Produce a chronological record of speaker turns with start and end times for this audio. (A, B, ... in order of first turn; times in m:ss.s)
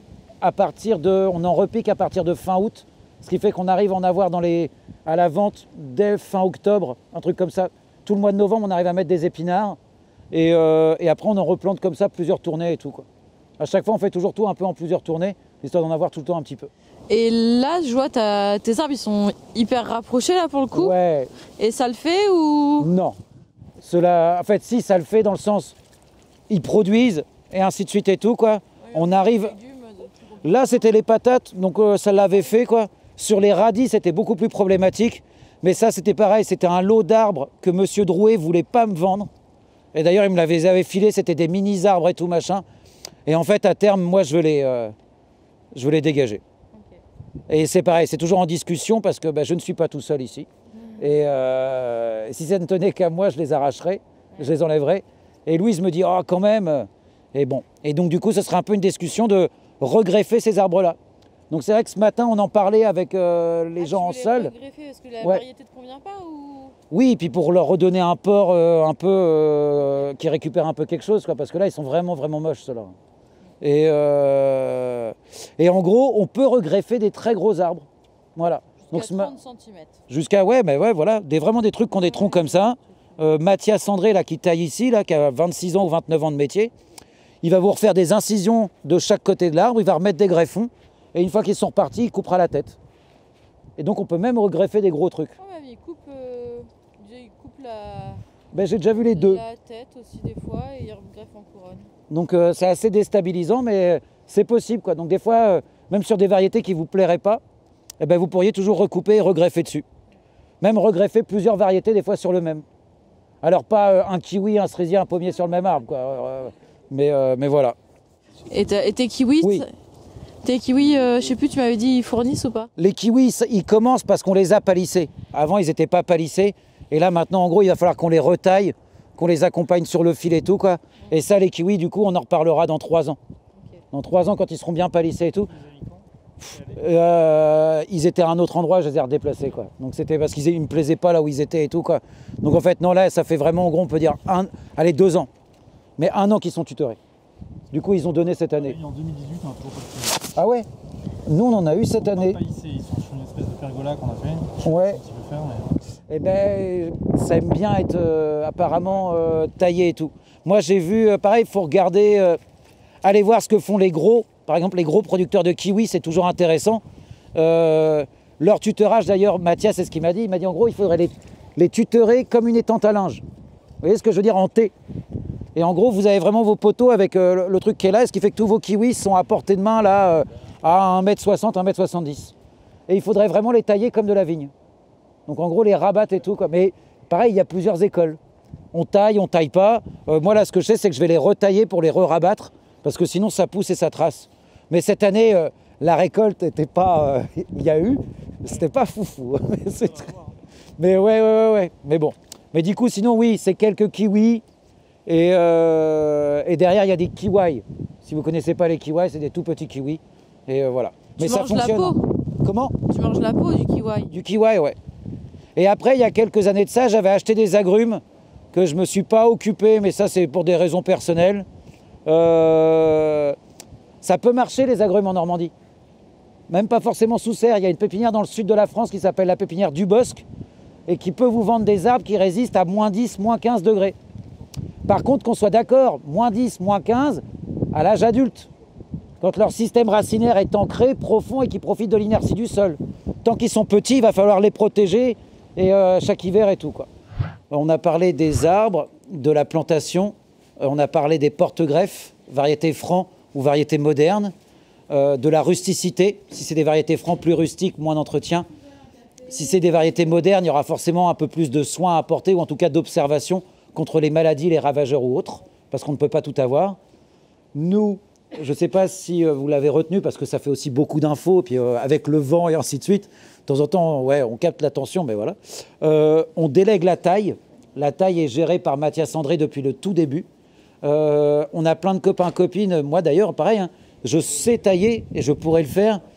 0:00.4-0:09.8 A
0:10.3-0:13.0 A
0:13.6-0:16.7 A
0:17.1-0:20.9 B
0:20.7-0:21.3 A
0:21.6-0:22.9 B
0:22.8-0:23.2 A
0:23.8-0:25.8 A
0:26.5-0:29.5 A
0:28.9-0:30.7 B
0:30.4-0:39.3 A
0:39.9-0:42.6 A
0:43.2-0:44.9 A
0:45.7-0:46.4 A
0:47.5-0:50.5 A
0:51.0-1:01.0 A
1:01.5-1:04.5 A
1:03.8-1:06.8 B
1:06.9-1:12.9 A
1:13.6-1:19.3 A
1:18.8-1:20.0 B
1:20.1-1:26.7 A
1:22.2-1:22.6 B
1:27.4-1:32.8 A
1:33.8-1:35.3 A
1:35.4-1:38.2 B
1:38.5-1:39.4 A
1:38.9-1:41.9 B
1:42.1-1:47.4 A
1:48.0-1:49.8 A
1:50.6-1:52.6 A
1:53.4-1:57.8 A
1:58.5-1:59.7 B
2:00.4-2:02.7 B
2:02.8-2:13.2 A
2:13.9-2:15.5 A
2:15.5-2:16.8 C
2:16.7-2:25.3 A
2:26.0-2:27.0 A
2:27.7-2:28.8 A
2:28.5-2:30.3 C
2:30.3-2:30.6 A
2:31.3-2:32.4 A
2:32.0-2:35.9 C
2:34.6-2:35.0 A
2:36.1-2:42.4 A
2:43.0-2:46.8 A
2:47.3-2:53.2 A
2:53.8-2:54.7 A
2:55.5-3:02.3 A
3:02.9-3:04.5 A
3:05.3-3:08.2 A
3:08.7-3:20.1 A
3:19.6-3:20.4 C
3:20.8-3:24.4 A
3:25.1-3:32.8 A
3:31.2-3:32.0 B
3:32.8-3:34.1 B
3:34.1-3:34.8 A
3:35.6-3:38.0 A
3:38.5-3:41.5 A
3:42.0-3:43.4 A
3:44.0-3:45.5 A
3:46.5-3:50.2 A
3:50.9-3:54.0 A
3:54.8-3:58.5 A
3:59.2-4:06.9 A
4:07.5-4:14.3 A
4:14.9-4:18.5 A
4:19.2-4:26.8 A
4:27.5-4:40.3 A
4:40.8-4:46.0 A